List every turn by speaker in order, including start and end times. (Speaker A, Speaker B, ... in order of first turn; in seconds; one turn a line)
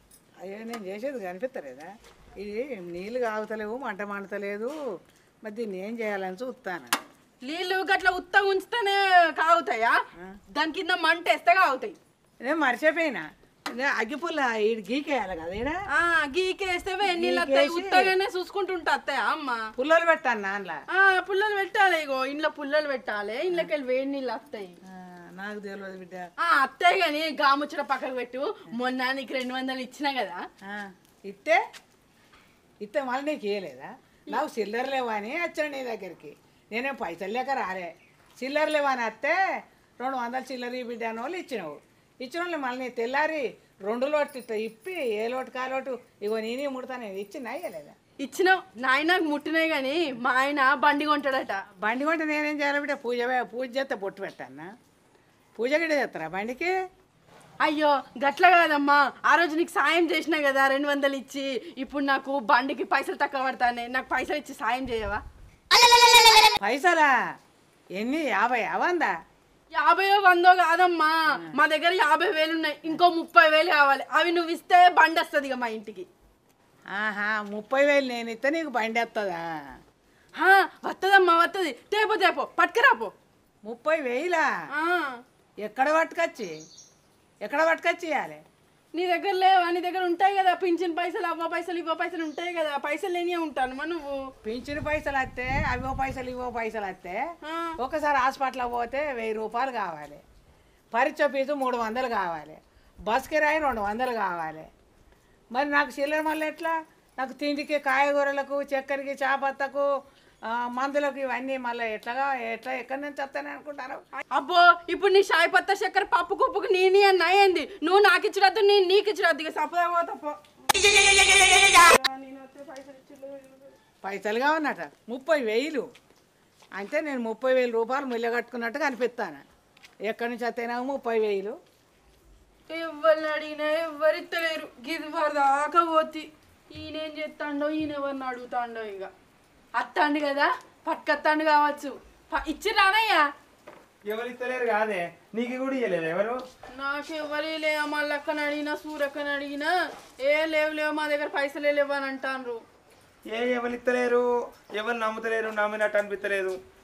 Speaker A: 0.4-4.7
Speaker A: 5.5-7.0
Speaker B: 7.5-10.0
Speaker B: 10.5-12.0
Speaker A: 12.4-15.8
Speaker B: 15.9-19.7
Speaker A: 17.1-18.1
Speaker A: 19.8-20.8
Speaker B: 20.9-24.8
Speaker A: 24.9-26.3
Speaker B: 26.4-30.4
Speaker A: 30.6-31.6
Speaker A: 32.8-47.9
Speaker B: 48.2-51.6
Speaker A: 51.8-54.7
Speaker A: 55.6-56.7
Speaker B: 57.6-65.2
Speaker A: 66.6-67.1
Speaker A: 68.0-69.2
Speaker B: 69.8-76.1
Speaker A: 76.9-79.8
Speaker B: 80.4-83.1
Speaker A: 83.7-84.5
Speaker B: 84.7-85.2
Speaker A: 85.6-86.5
Speaker A: 87.4-88.4
Speaker B: 88.9-94.2
Speaker A: 94.4-97.2
Speaker B: 97.4-97.8
Speaker A: 97.8-100.2
Speaker A: 100.9-104.7
Speaker A: 105.5-109.9
Speaker A: 110.5-114.0
Speaker B: 114.3-123.8
Speaker A: 124.0-125.9
Speaker A: 126.8-129.4
Speaker A: 130.1-131.6
Speaker B: 132.7-139.1
Speaker B: 139.8-143.3
Speaker C: 144.1-146.4
Speaker B: 146.7-152.6
Speaker C: 153.3-156.6